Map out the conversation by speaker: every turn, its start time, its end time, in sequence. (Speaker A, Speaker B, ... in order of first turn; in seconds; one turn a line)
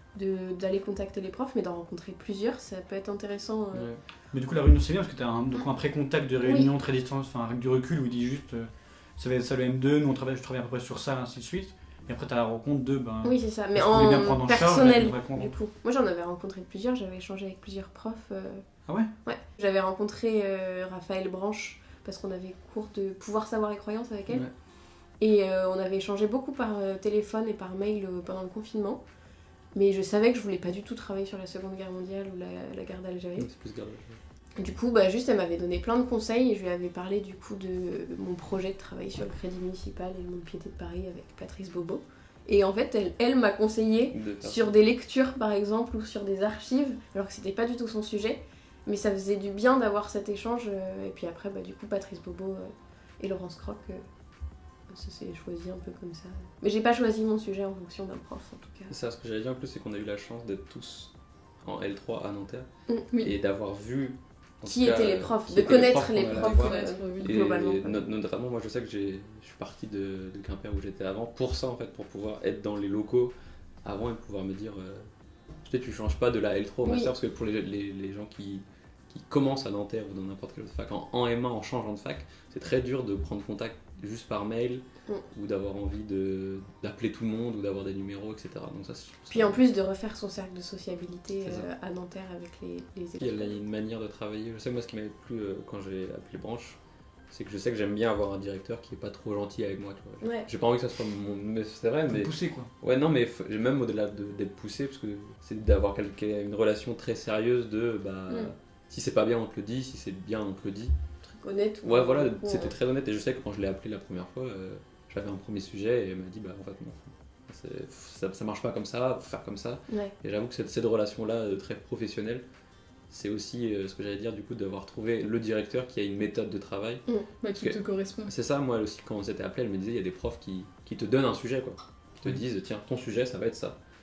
Speaker A: 0.1-3.9
Speaker B: 3.7-4.0
Speaker C: 4.3-15.5
Speaker A: 6.4-6.7
Speaker A: 13.2-18.6
Speaker A: 19.2-24.4
Speaker A: 25.2-29.0
Speaker A: 29.7-33.5
Speaker B: 33.4-34.2
Speaker A: 34.6-54.0
Speaker B: 44.1-44.7
Speaker A: 54.9-58.9
Speaker B: 58.9-62.7
Speaker B: 63.2-75.1
Speaker A: 64.7-68.0
Speaker D: 66.3-67.3
Speaker B: 75.7-89.6
Speaker A: 76.8-77.1
Speaker A: 89.3-93.6
Speaker B: 93.2-96.8
Speaker B: 97.3-110.9
Speaker A: 100.2-100.5
Speaker C: 102.1-102.7
Speaker A: 111.2-112.7
Speaker B: 111.8-122.4
Speaker B: 123.1-127.0
Speaker D: 127.4-128.3
Speaker B: 127.5-133.8